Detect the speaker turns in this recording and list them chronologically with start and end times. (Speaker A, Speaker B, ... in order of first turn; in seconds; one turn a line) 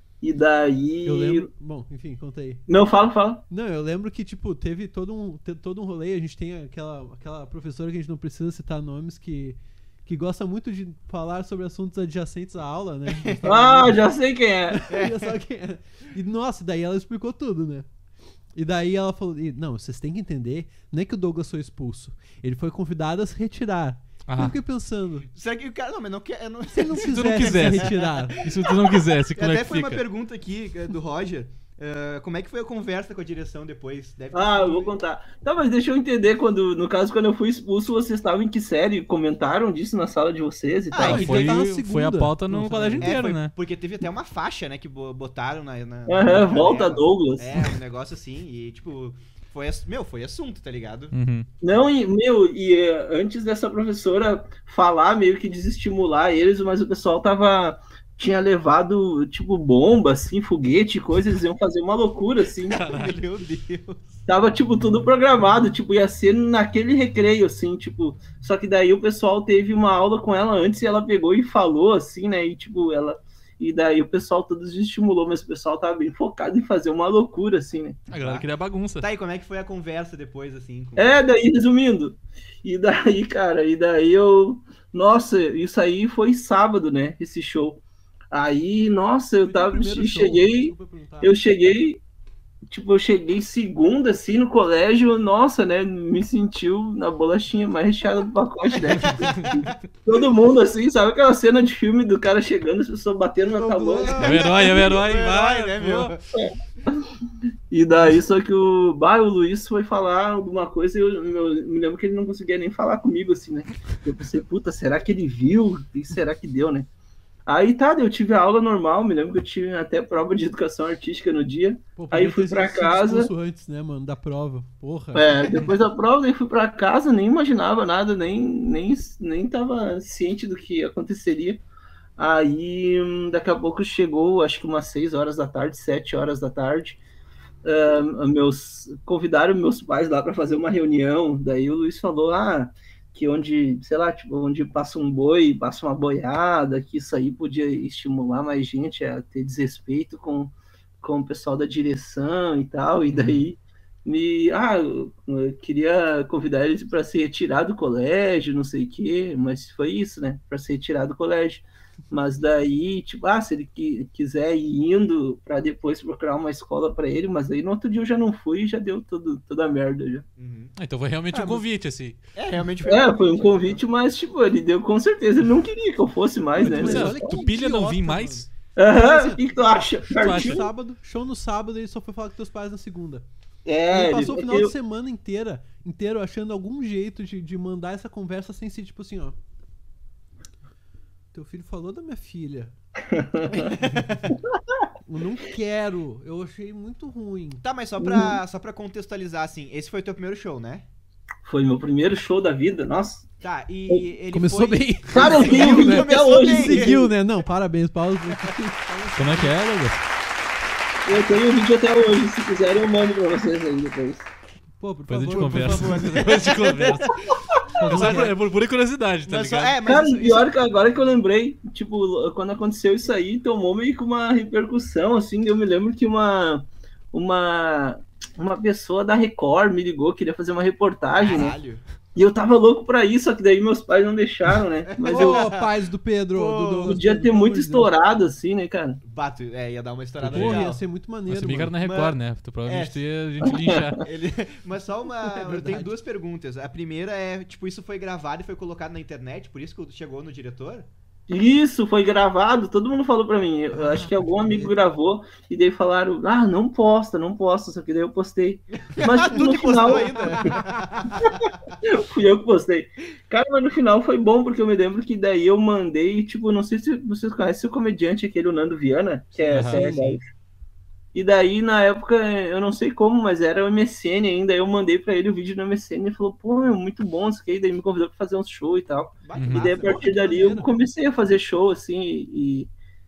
Speaker A: 0.2-1.5
Speaker B: 1.1-2.6
Speaker A: 2.7-3.4
Speaker B: 3.5-14.0
Speaker C: 13.1-13.4
Speaker A: 13.4-14.9
Speaker B: 14.7-17.9
Speaker C: 14.9-15.3
Speaker B: 18.6-25.3
Speaker D: 24.3-24.6
Speaker C: 25.3-35.0
Speaker B: 26.7-28.4
Speaker D: 27.0-30.0
Speaker A: 34.3-41.4
Speaker C: 40.9-41.5
Speaker B: 41.0-43.2
Speaker D: 41.0-43.5
Speaker C: 43.0-51.1
Speaker A: 46.1-47.6
Speaker D: 51.1-51.5
Speaker A: 51.6-62.8
Speaker D: 62.7-63.2
Speaker C: 62.7-64.2
Speaker A: 64.3-78.0
Speaker D: 78.1-79.1
Speaker C: 78.1-81.2
Speaker A: 81.0-87.8
Speaker A: 88.3-92.0
Speaker B: 89.4-91.4
Speaker A: 92.7-104.5
Speaker C: 98.9-99.7
Speaker C: 103.5-106.3
Speaker D: 104.2-106.1
Speaker A: 107.7-116.9
Speaker A: 117.5-123.3
Speaker B: 122.0-125.3
Speaker A: 125.1-131.6
Speaker C: 125.5-125.7
Speaker A: 132.2-137.0
Speaker A: 137.6-170.2
Speaker C: 170.4-170.7
Speaker D: 170.8-172.2
Speaker C: 172.3-173.8
Speaker A: 172.9-177.3
Speaker B: 176.6-179.4
Speaker D: 176.7-178.5
Speaker A: 178.8-180.7
Speaker D: 180.1-180.7
Speaker B: 180.3-183.2
Speaker A: 183.6-184.7
Speaker B: 183.9-189.4
Speaker B: 191.3-192.7
Speaker A: 193.1-193.7
Speaker C: 193.6-194.3
Speaker B: 195.1-197.6
Speaker C: 197.6-200.9
Speaker A: 201.4-203.3
Speaker C: 203.4-207.1
Speaker B: 204.3-209.5
Speaker A: 205.1-207.0
Speaker D: 209.2-210.0
Speaker A: 211.1-214.3
Speaker B: 214.8-216.1
Speaker D: 215.1-217.1
Speaker C: 215.3-218.3
Speaker D: 217.8-219.8
Speaker B: 217.8-218.3
Speaker C: 219.3-220.5
Speaker A: 219.9-231.6
Speaker C: 231.1-231.8
Speaker A: 232.1-235.5
Speaker C: 234.9-235.7
Speaker B: 235.1-237.9
Speaker C: 236.3-237.0
Speaker A: 236.8-239.0
Speaker C: 239.0-240.8
Speaker B: 240.2-241.7
Speaker D: 240.2-240.7
Speaker D: 241.3-244.0
Speaker C: 241.8-243.0
Speaker C: 244.0-250.9
Speaker B: 245.2-246.0
Speaker A: 251.3-260.6
Speaker B: 254.3-254.7
Speaker C: 258.7-261.3
Speaker A: 261.2-270.2
Speaker C: 269.5-270.0
Speaker D: 269.5-270.0
Speaker A: 271.1-282.7
Speaker C: 279.2-280.4
Speaker D: 279.4-279.7
Speaker B: 279.8-280.7